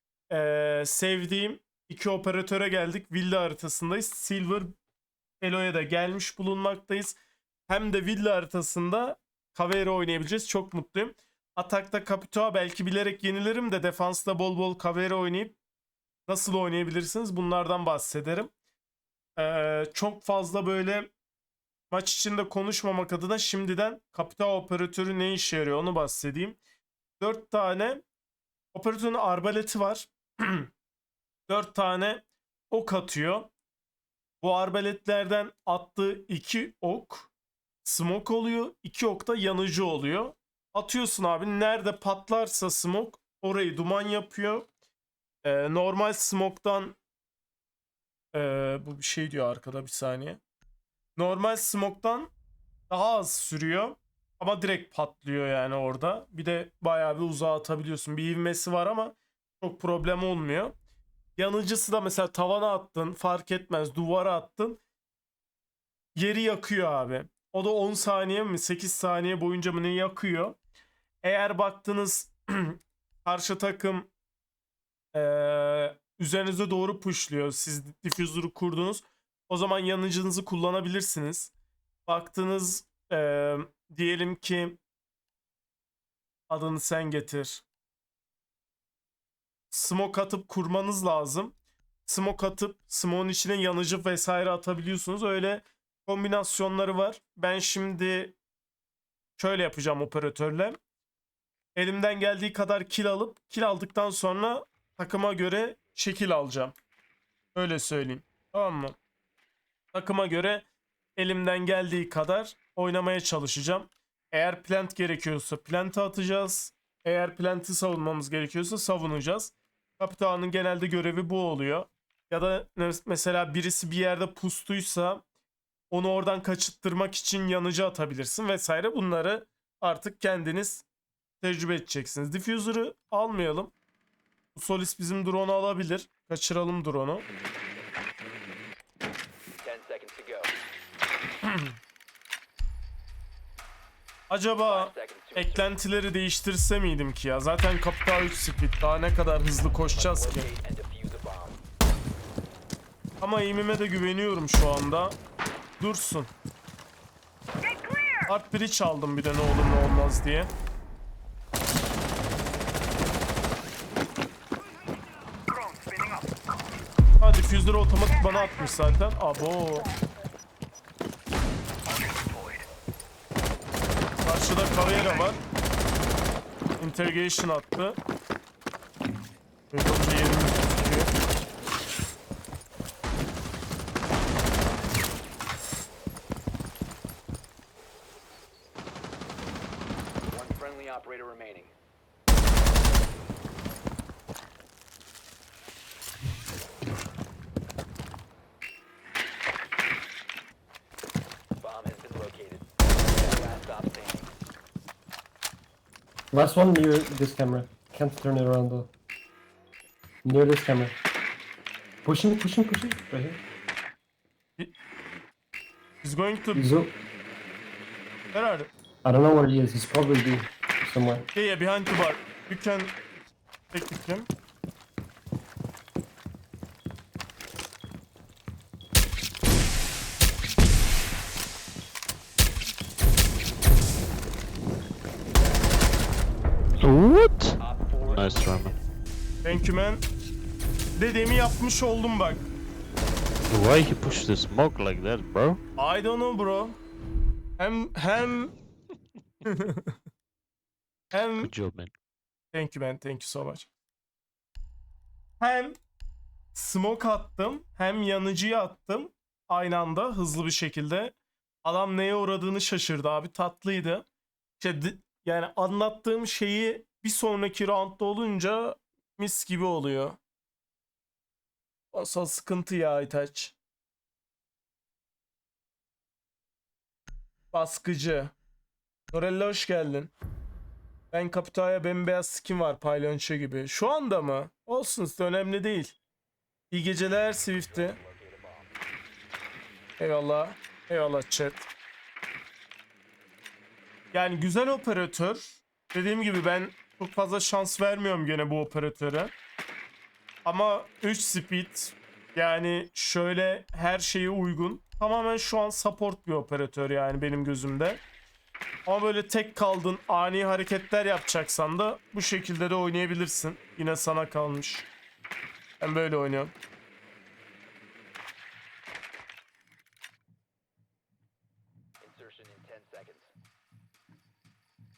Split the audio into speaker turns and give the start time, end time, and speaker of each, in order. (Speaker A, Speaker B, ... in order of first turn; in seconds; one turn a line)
Speaker A: 0.3-4.7
Speaker A: 5.4-7.2
Speaker A: 7.7-15.6
Speaker A: 16.3-18.5
Speaker A: 19.4-21.1
Speaker A: 21.9-26.6
Speaker A: 27.2-28.0
Speaker A: 28.7-30.7
Speaker A: 31.5-33.5
Speaker A: 34.4-37.3
Speaker A: 37.8-44.7
Speaker A: 45.4-47.0
Speaker A: 48.3-50.4
Speaker A: 51.1-52.3
Speaker A: 52.9-60.7
Speaker A: 61.4-64.8
Speaker A: 66.1-70.6
Speaker A: 71.2-74.1
Speaker A: 75.1-81.5
Speaker A: 82.0-84.8
Speaker A: 86.5-87.6
Speaker A: 89.7-91.5
Speaker A: 92.0-98.3
Speaker A: 99.4-100.8
Speaker A: 101.8-106.8
Speaker A: 107.5-109.0
Speaker A: 109.9-125.2
Speaker A: 125.9-130.8
Speaker A: 131.4-133.7
Speaker A: 134.5-137.3
Speaker B: 139.6-140.5
Speaker A: 141.4-141.7
Speaker A: 144.3-150.5
Speaker B: 144.6-145.8
Speaker B: 149.9-151.6
Speaker A: 153.2-155.2
Speaker A: 155.8-156.3
Speaker A: 158.2-160.5
Speaker B: 165.7-166.0
Speaker A: 167.2-169.9
Speaker A: 174.2-175.4
Speaker A: 176.8-178.0
Speaker A: 179.7-181.1
Speaker B: 190.3-191.7
Speaker B: 201.6-204.3
Speaker C: 206.3-208.9
Speaker C: 210.2-210.9
Speaker C: 212.0-213.4
Speaker A: 216.0-216.7
Speaker C: 216.5-216.9
Speaker A: 218.3-218.7
Speaker C: 219.0-221.3
Speaker A: 221.3-222.9
Speaker A: 223.7-224.3
Speaker D: 236.8-237.5
Speaker B: 237.6-238.8
Speaker D: 238.1-238.7
Speaker A: 239.4-240.0
Speaker A: 240.9-242.5
Speaker D: 243.5-245.6
Speaker A: 245.8-246.8
Speaker A: 247.6-248.5
Speaker A: 249.4-250.0
Speaker A: 251.1-251.5
Speaker D: 251.4-251.9
Speaker A: 252.5-253.7
Speaker A: 255.4-255.8
Speaker A: 256.5-264.0
Speaker A: 264.6-270.2
Speaker A: 271.9-273.6
Speaker A: 277.5-278.3
Speaker A: 279.1-280.1
Speaker A: 281.1-286.0
Speaker A: 286.7-288.0
Speaker B: 287.3-288.7
Speaker A: 290.0-291.7
Speaker A: 294.1-299.3
Speaker A: 300.4-308.0
Speaker A: 308.9-314.9
Speaker A: 315.8-316.5
Speaker B: 322.0-323.3